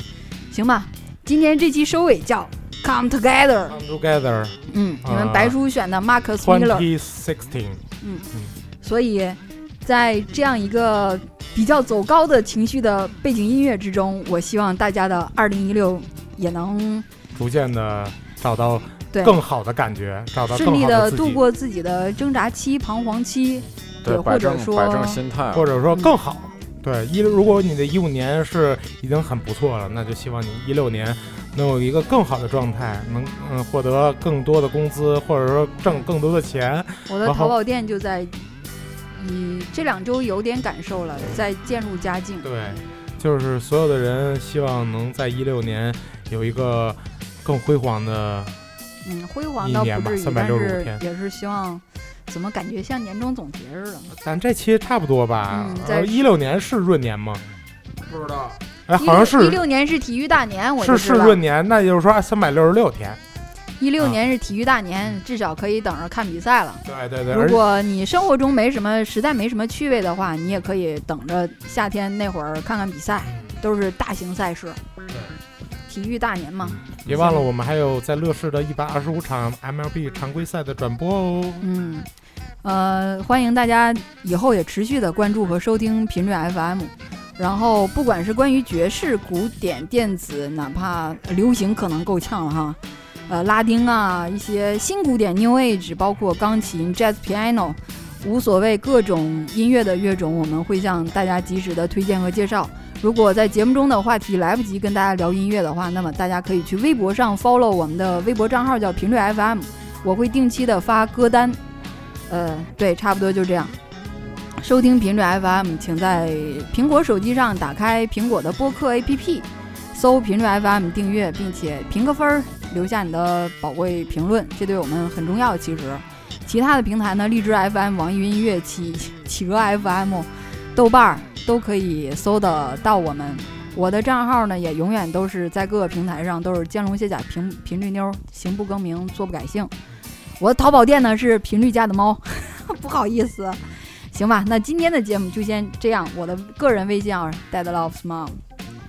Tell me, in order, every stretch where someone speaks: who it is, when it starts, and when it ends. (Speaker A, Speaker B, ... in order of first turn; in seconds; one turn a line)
Speaker A: 0.5-3.8
Speaker B: 3.7-5.6
Speaker A: 4.7-6.9
Speaker B: 6.4-8.5
Speaker A: 8.0-8.3
Speaker A: 8.8-17.1
Speaker B: 17.3-21.4
Speaker A: 19.1-19.4
Speaker A: 20.5-25.2
Speaker C: 24.0-25.7
Speaker B: 25.5-37.5
Speaker A: 37.1-38.5
Speaker A: 39.1-42.8
Speaker B: 42.4-48.6
Speaker A: 49.0-54.1
Speaker B: 49.6-51.0
Speaker B: 54.1-57.4
Speaker A: 55.5-56.2
Speaker C: 58.0-58.6
Speaker B: 58.9-59.6
Speaker A: 59.0-61.4
Speaker B: 60.8-63.2
Speaker A: 63.8-74.8
Speaker B: 66.8-67.6
Speaker B: 73.2-73.6
Speaker A: 75.9-77.5
Speaker B: 76.6-81.6
Speaker A: 81.6-82.1
Speaker A: 82.6-111.6
Speaker A: 112.3-113.7
Speaker A: 114.6-139.7
Speaker A: 140.4-148.4